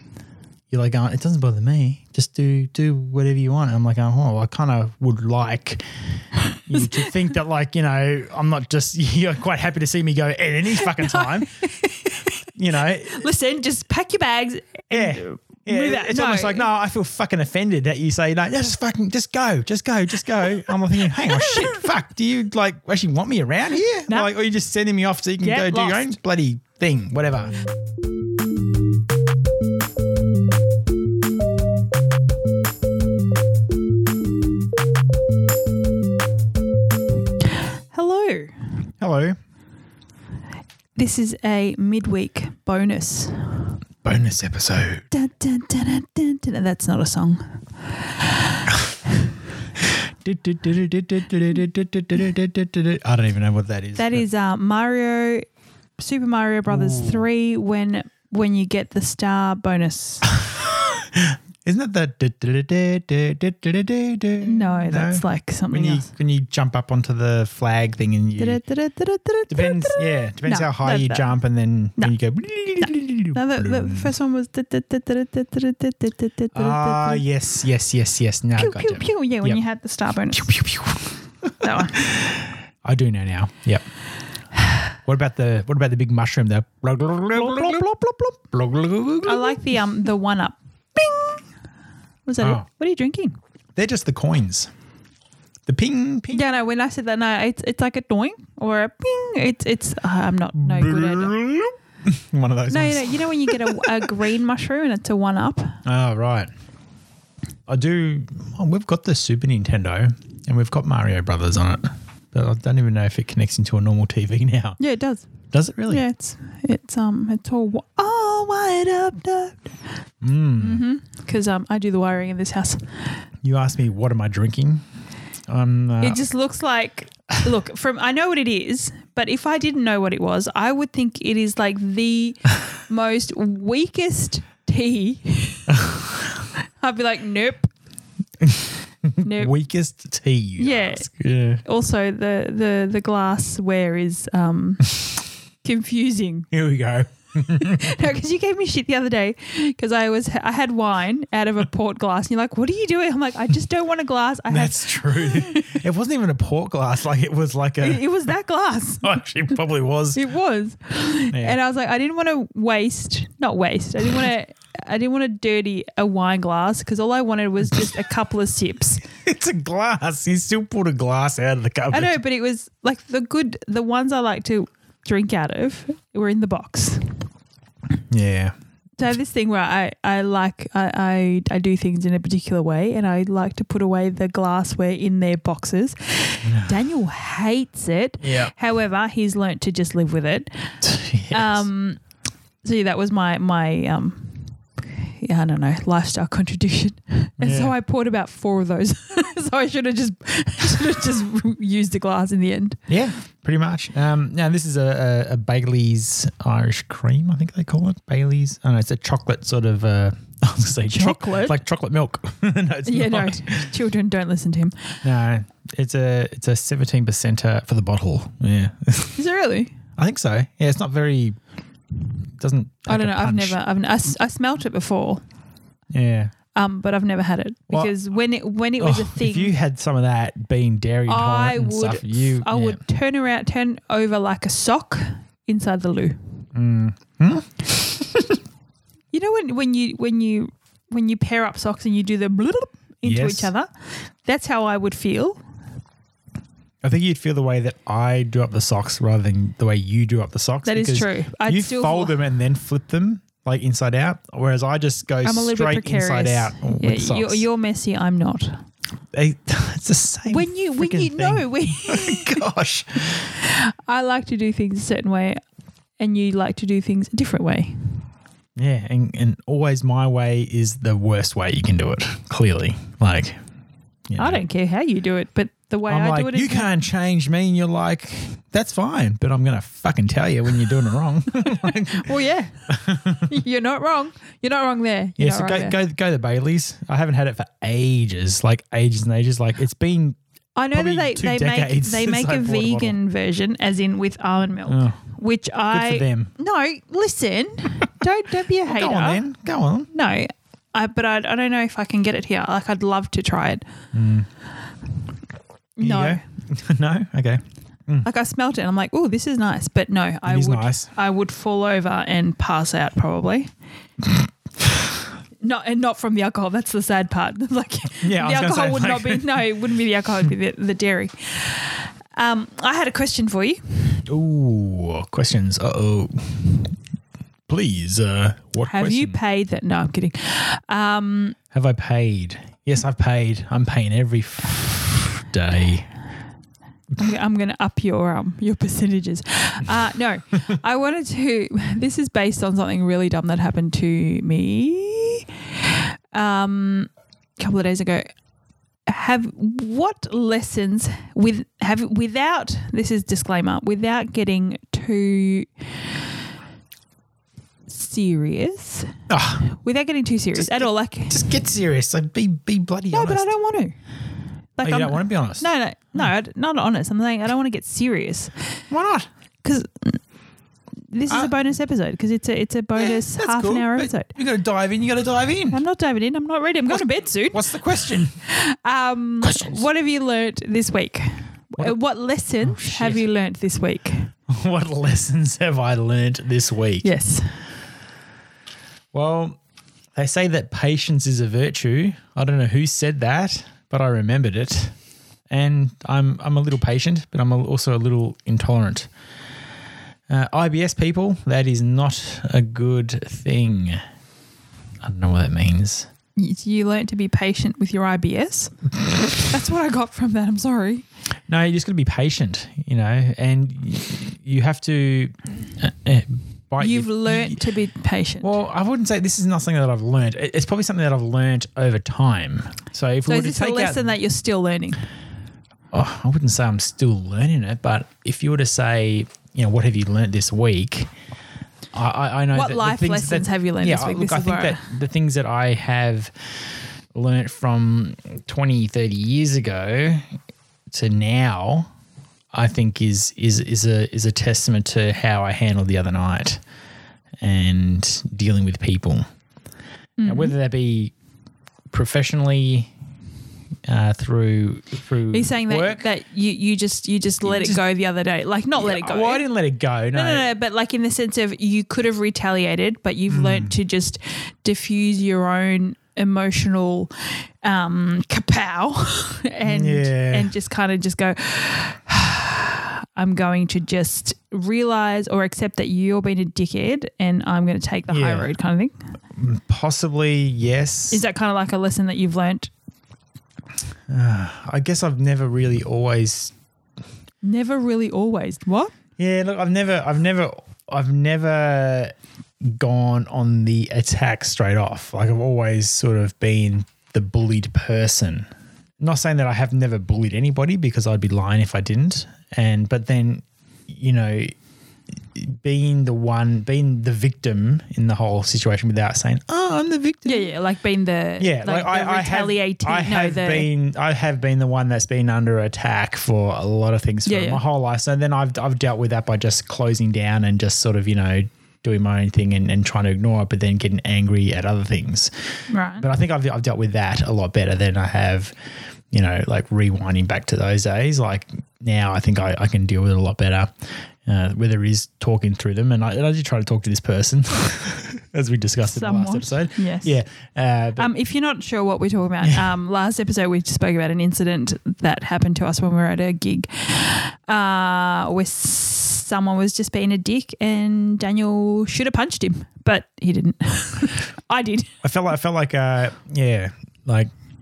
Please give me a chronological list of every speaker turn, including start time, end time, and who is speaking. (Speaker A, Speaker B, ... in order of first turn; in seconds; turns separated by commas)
Speaker A: 0.7-5.8, Speaker A: 6.7-11.5, Speaker B: 10.8-12.4, Speaker A: 12.6-13.3, Speaker B: 13.1-16.7, Speaker A: 14.9-27.5, Speaker B: 21.2-21.9, Speaker B: 25.4-26.2, Speaker B: 37.9-38.5, Speaker A: 39.0-39.4, Speaker B: 41.0-43.8, Speaker A: 44.0-45.0, Speaker B: 45.1-47.6, Speaker B: 48.2-48.6, Speaker A: 50.2-54.3, Speaker B: 54.0-55.5, Speaker B: 56.0-60.2, Speaker A: 56.7-57.3, Speaker A: 60.3-68.6, Speaker B: 64.4-66.1, Speaker B: 68.4-71.3, Speaker A: 69.5-74.1, Speaker B: 72.8-77.2, Speaker A: 76.5-79.6, Speaker B: 78.6-80.5, Speaker A: 80.3-83.8, Speaker B: 81.6-82.0, Speaker A: 84.9-89.6, Speaker B: 89.2-91.4, Speaker B: 92.3-93.4, Speaker A: 92.4-92.7, Speaker A: 93.8-94.7, Speaker A: 95.7-96.4, Speaker B: 96.3-101.3, Speaker A: 100.6-104.1, Speaker B: 102.7-105.8, Speaker A: 105.8-106.5, Speaker A: 107.7-114.8, Speaker B: 114.8-115.3, Speaker A: 115.5-116.0, Speaker B: 115.9-119.6, Speaker A: 120.2-120.8, Speaker B: 120.6-122.9, Speaker A: 123.4-124.8, Speaker A: 125.5-126.2, Speaker B: 126.0-135.7, Speaker A: 135.7-136.3, Speaker B: 136.8-137.7, Speaker A: 138.4-141.6, Speaker B: 139.2-139.5, Speaker B: 140.6-141.1, Speaker B: 141.7-146.5, Speaker A: 146.5-148.0, Speaker B: 147.5-155.8, Speaker A: 154.5-158.3, Speaker B: 157.8-159.2, Speaker A: 159.0-160.2, Speaker B: 160.1-169.0, Speaker A: 161.3-161.6, Speaker A: 169.2-172.2, Speaker B: 171.9-177.2, Speaker A: 178.1-178.5, Speaker B: 179.0-190.5, Speaker A: 186.4-186.8, Speaker A: 188.2-188.5, Speaker A: 190.8-191.7, Speaker B: 191.3-192.0, Speaker B: 192.6-202.8, Speaker A: 197.4-197.7, Speaker A: 202.9-213.7, Speaker B: 210.9-211.6, Speaker B: 212.9-214.8, Speaker A: 215.0-219.2, Speaker B: 219.2-219.8, Speaker A: 220.0-221.4, Speaker A: 222.4-223.6, Speaker B: 222.9-225.2, Speaker A: 225.9-226.3, Speaker B: 226.5-229.5, Speaker A: 228.8-232.8, Speaker B: 231.1-236.2, Speaker A: 236.5-238.4, Speaker B: 239.1-243.7, Speaker A: 243.1-243.5, Speaker B: 244.2-245.4, Speaker A: 246.8-257.4, Speaker B: 250.7-252.2, Speaker B: 255.2-258.6, Speaker A: 259.1-263.3, Speaker B: 260.3-262.4, Speaker B: 263.2-265.4, Speaker B: 266.0-268.0, Speaker A: 268.6-273.4, Speaker A: 274.1-274.4, Speaker B: 274.2-276.7, Speaker A: 275.9-282.1, Speaker B: 281.4-282.6, Speaker A: 282.7-283.3, Speaker B: 283.2-285.8, Speaker A: 285.2-290.2, Speaker B: 290.6-299.2, Speaker A: 290.7-293.0, Speaker A: 294.7-295.0, Speaker A: 295.7-296.3, Speaker A: 298.6-299.9, Speaker B: 299.9-303.6, Speaker A: 303.9-304.3, Speaker B: 305.8-306.2, Speaker A: 305.8-308.1, Speaker B: 308.0-313.5, Speaker A: 310.3-310.9, Speaker B: 315.4-324.0, Speaker A: 318.0-319.4, Speaker A: 324.1-326.7, Speaker A: 327.5-329.2, Speaker B: 328.6-331.4, Speaker A: 331.5-335.9, Speaker B: 336.9-348.1, Speaker B: 348.9-355.5, Speaker B: 357.7-358.9, Speaker A: 359.1-359.5, Speaker B: 359.5-361.2, Speaker A: 360.4-363.3, Speaker B: 362.9-363.8, Speaker B: 364.6-368.4, Speaker A: 364.6-366.1, Speaker A: 368.7-369.1, Speaker B: 369.4-370.0, Speaker B: 370.9-374.1, Speaker A: 372.8-375.6, Speaker B: 375.5-384.1, Speaker A: 376.7-378.2, Speaker A: 379.2-379.6, Speaker A: 382.4-383.0, Speaker A: 384.3-386.9, Speaker B: 386.8-387.4, Speaker A: 388.9-389.4, Speaker A: 390.0-394.7, Speaker A: 395.3-398.9, Speaker A: 400.1-403.8, Speaker A: 404.8-405.9, Speaker B: 406.2-408.5, Speaker B: 409.2-410.9, Speaker A: 411.3-417.4, Speaker B: 416.6-418.4, Speaker A: 418.2-423.9, Speaker B: 423.1-424.9, Speaker A: 425.7-430.9, Speaker A: 431.7-436.1, Speaker B: 432.3-434.7, Speaker A: 436.9-440.1, Speaker A: 440.7-441.7, Speaker A: 442.3-446.4, Speaker A: 447.2-449.1, Speaker B: 450.0-450.3, Speaker A: 450.1-450.9, Speaker A: 451.7-452.7, Speaker A: 453.7-455.9, Speaker B: 455.1-459.3, Speaker A: 457.2-457.6, Speaker A: 458.6-460.3, Speaker B: 459.9-466.9, Speaker A: 463.1-463.6, Speaker B: 467.4-478.8, Speaker A: 469.4-470.3, Speaker A: 477.9-478.3, Speaker A: 479.2-481.0, Speaker B: 480.9-482.5, Speaker A: 483.9-486.3, Speaker B: 487.2-488.7, Speaker A: 489.0-498.3, Speaker A: 498.8-504.3, Speaker A: 505.2-510.2, Speaker B: 510.1-513.5, Speaker A: 511.2-525.1, Speaker B: 517.1-517.4, Speaker B: 525.5-525.9, Speaker A: 525.8-528.3, Speaker A: 528.9-533.5, Speaker A: 534.0-540.9, Speaker B: 538.7-539.9, Speaker B: 540.8-554.7, Speaker A: 554.8-557.1